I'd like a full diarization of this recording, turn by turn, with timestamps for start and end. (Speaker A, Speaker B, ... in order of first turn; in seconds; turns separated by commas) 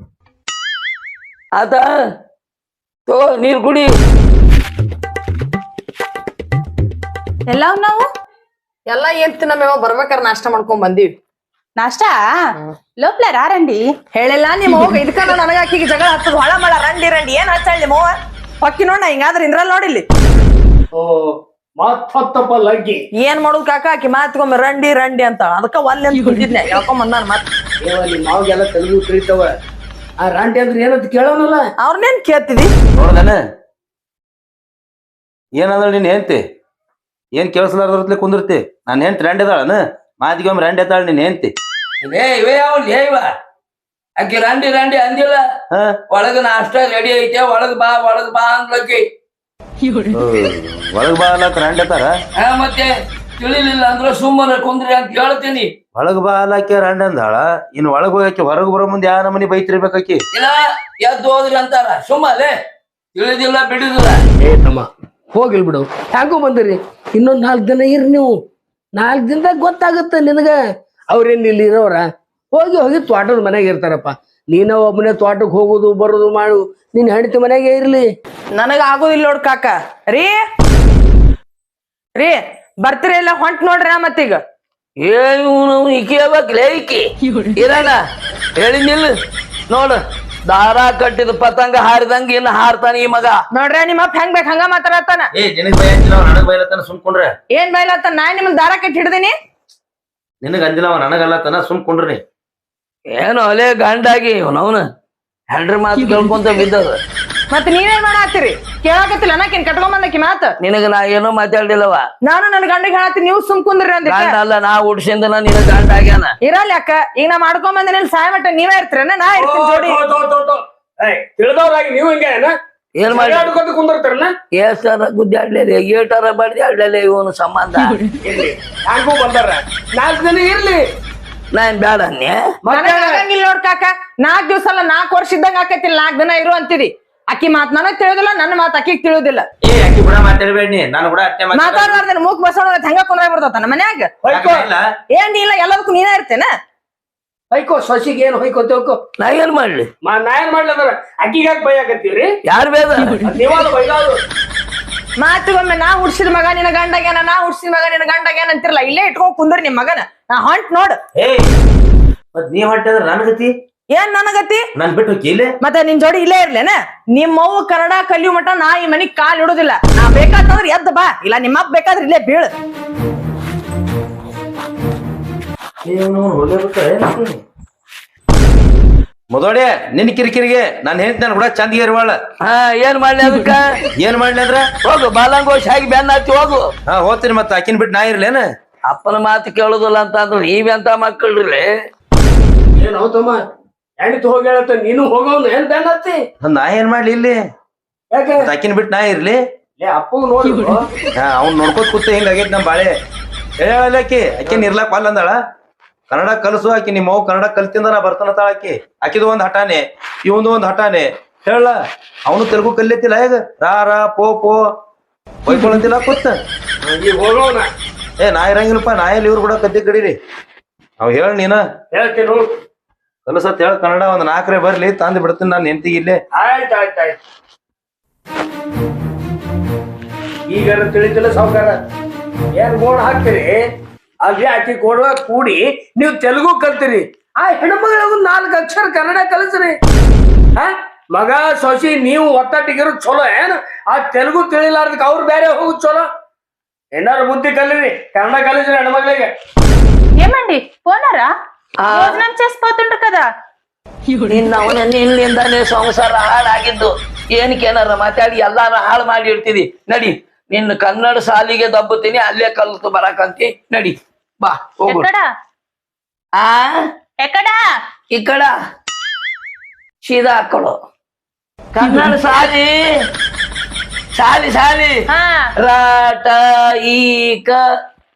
Speaker A: 1.6-1.8, Speaker A: 3.1-3.9, Speaker B: 7.5-8.0, Speaker C: 8.9-11.1, Speaker B: 11.8-12.2, Speaker B: 13.0-13.8, Speaker C: 14.2-20.0, Speaker B: 14.7-15.0, Speaker D: 21.0-23.0, Speaker C: 23.2-27.4, Speaker D: 27.8-29.5, Speaker D: 30.2-31.6, Speaker C: 31.8-32.7, Speaker E: 33.0-33.4, Speaker E: 35.6-36.4, Speaker E: 37.4-41.5, Speaker A: 42.0-43.3, Speaker A: 44.2-45.4, Speaker A: 46.1-49.0, Speaker E: 50.2-52.1, Speaker A: 52.4-55.7, Speaker E: 56.0-60.2, Speaker A: 60.3-62.5, Speaker A: 63.1-64.2, Speaker D: 64.4-68.3, Speaker D: 69.0-70.6, Speaker D: 71.1-78.0, Speaker C: 78.5-80.4, Speaker C: 82.2-84.4, Speaker A: 85.0-87.0, Speaker A: 87.6-88.0, Speaker A: 88.6-89.1, Speaker A: 89.7-93.4, Speaker C: 93.5-95.3, Speaker E: 95.4-97.3, Speaker C: 97.5-99.3, Speaker E: 100.4-102.2, Speaker A: 103.2-104.8, Speaker A: 105.5-106.9, Speaker C: 107.5-110.5, Speaker A: 110.6-112.0, Speaker C: 112.2-114.4, Speaker A: 114.0-116.3, Speaker C: 116.4-120.0, Speaker D: 119.4-122.5, Speaker A: 123.0-123.5, Speaker D: 123.1-124.3, Speaker A: 124.5-128.0, Speaker D: 128.2-130.8, Speaker A: 131.5-132.4, Speaker D: 132.7-133.2, Speaker C: 132.7-139.5, Speaker E: 139.7-142.0, Speaker C: 141.5-144.1, Speaker D: 144.2-144.7, Speaker E: 144.3-144.8, Speaker C: 145.1-146.5, Speaker D: 147.5-149.0, Speaker A: 149.2-149.9, Speaker D: 150.0-152.3, Speaker A: 152.5-153.3, Speaker D: 153.2-154.2, Speaker C: 155.2-161.0, Speaker E: 161.2-161.5, Speaker E: 162.3-163.5, Speaker C: 163.9-164.7, Speaker E: 164.8-165.5, Speaker C: 165.6-172.5, Speaker E: 175.8-177.4, Speaker E: 179.3-182.2, Speaker A: 182.4-183.6, Speaker E: 184.0-184.7, Speaker A: 184.8-186.7, Speaker E: 186.9-188.4, Speaker A: 188.9-191.7, Speaker D: 192.8-193.4, Speaker D: 194.0-196.2, Speaker E: 196.4-197.4, Speaker D: 198.1-198.5, Speaker E: 198.4-199.4, Speaker D: 199.8-200.8, Speaker E: 201.2-202.9, Speaker E: 203.6-205.4, Speaker E: 206.1-211.8, Speaker E: 212.3-214.6, Speaker E: 215.4-216.4, Speaker D: 216.8-217.7, Speaker E: 218.2-220.2, Speaker E: 221.0-221.6, Speaker D: 221.9-222.5, Speaker E: 223.3-226.2, Speaker D: 226.3-227.2, Speaker D: 230.5-231.8, Speaker D: 232.6-233.5, Speaker D: 234.2-239.8, Speaker D: 240.6-246.1, Speaker D: 246.9-249.3, Speaker B: 250.2-251.3, Speaker A: 251.8-252.2, Speaker B: 251.9-253.3, Speaker A: 254.3-265.1, Speaker B: 264.9-265.3, Speaker A: 266.4-266.8, Speaker B: 267.2-267.6, Speaker A: 268.1-268.5, Speaker A: 270.0-270.7, Speaker A: 271.8-272.7, Speaker A: 274.2-275.0, Speaker B: 275.1-275.5, Speaker A: 275.6-277.6